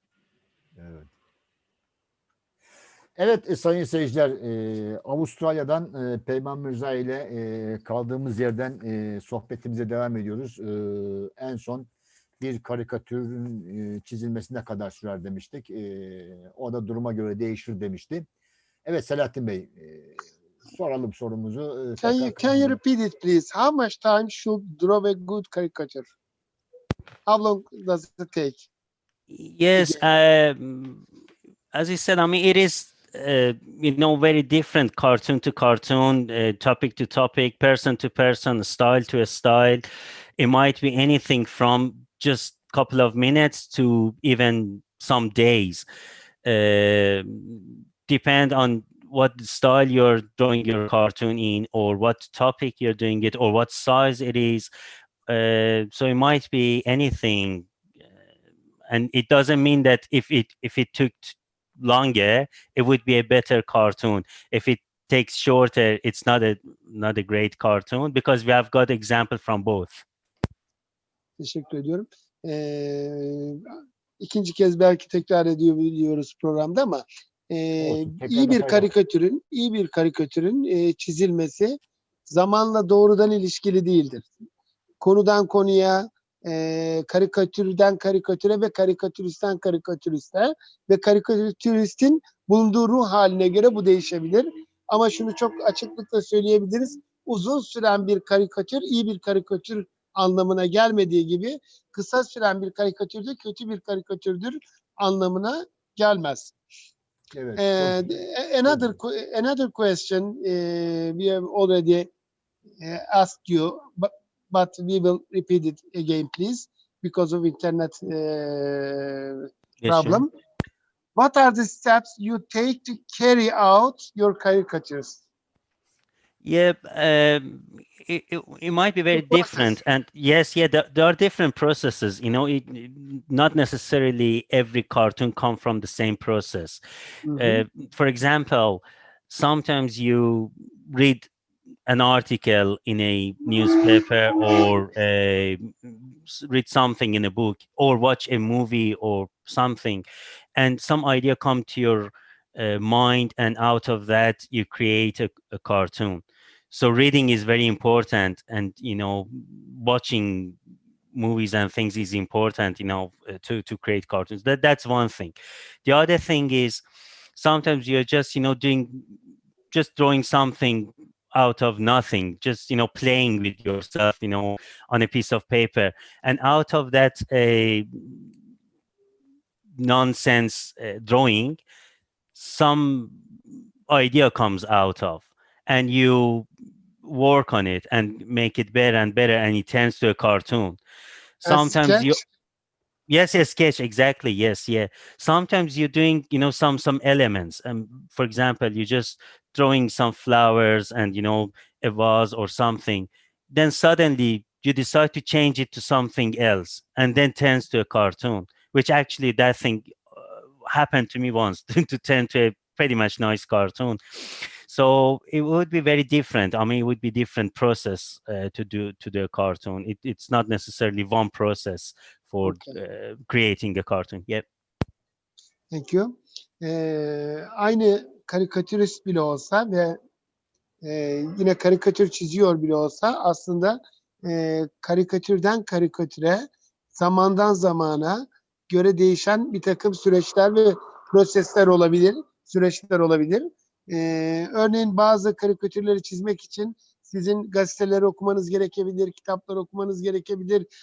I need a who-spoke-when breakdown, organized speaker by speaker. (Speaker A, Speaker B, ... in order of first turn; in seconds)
Speaker A: 0.8-1.1, 3.1-11.9, 12.4-18.2, 18.8-22.8, 77.8-78.9, 107.3-109.0
Speaker B: 22.0-26.1, 27.2-28.7, 71.4-73.7, 74.2-84.3, 85.0-106.5, 107.6-112.1, 112.8-120.3, 121.2-125.2, 129.1-129.8, 137.2-137.6, 191.4-192.2, 222.4-222.7, 225.7-230.0, 230.8-250.7
Speaker C: 29.3-31.0, 31.7-39.8, 40.4-45.8, 46.4-54.7, 55.3-57.7, 58.9-70.0, 119.8-120.2, 126.4-136.8, 137.4-141.3, 141.9-150.0, 150.6-160.6, 161.1-165.3, 165.8-166.8, 167.3-169.1, 169.7-178.2, 179.8-181.6, 182.3-183.2, 183.9-186.5, 187.0-190.8, 191.4-192.2, 193.1-224.4